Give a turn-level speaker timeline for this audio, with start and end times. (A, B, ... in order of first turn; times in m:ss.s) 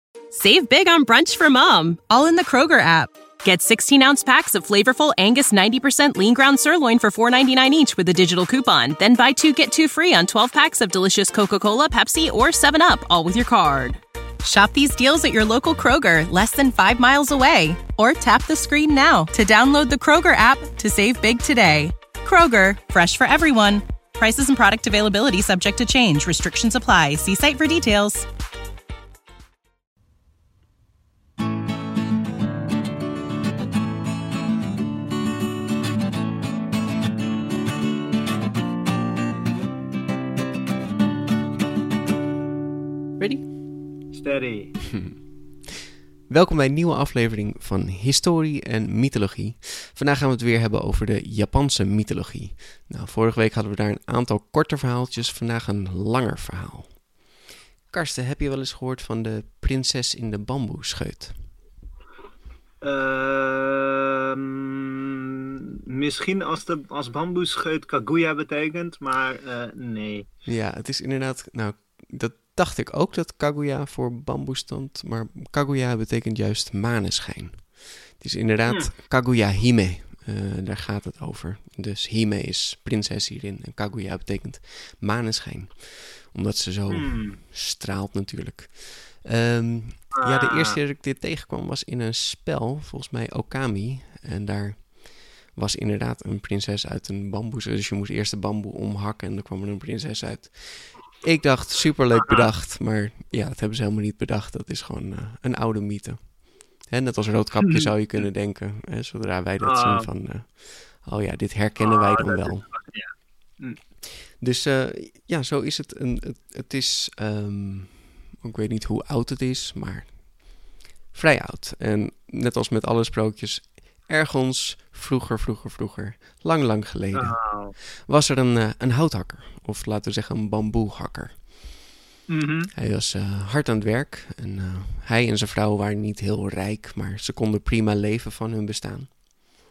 0:00.3-0:28.3 A
0:43.2-0:43.9 B
0:44.1-0:44.9 C
0:44.9-0:45.2 B
0:46.3-0:57.0 B
0:57.9-1:01.5 B
1:02.8-1:05.4 C
1:05.9-1:10.3 C
1:10.5-1:52.7 B
1:26.9-1:27.4 C
1:30.2-1:30.8 C
1:42.2-1:42.5 C
1:49.6-1:50.1 C
1:51.8-1:53.8 C
1:54.4-2:00.5 B
2:01.1-2:11.5 B
2:07.1-2:07.7 C
2:12.3-2:12.7 C
2:12.8-2:19.2 B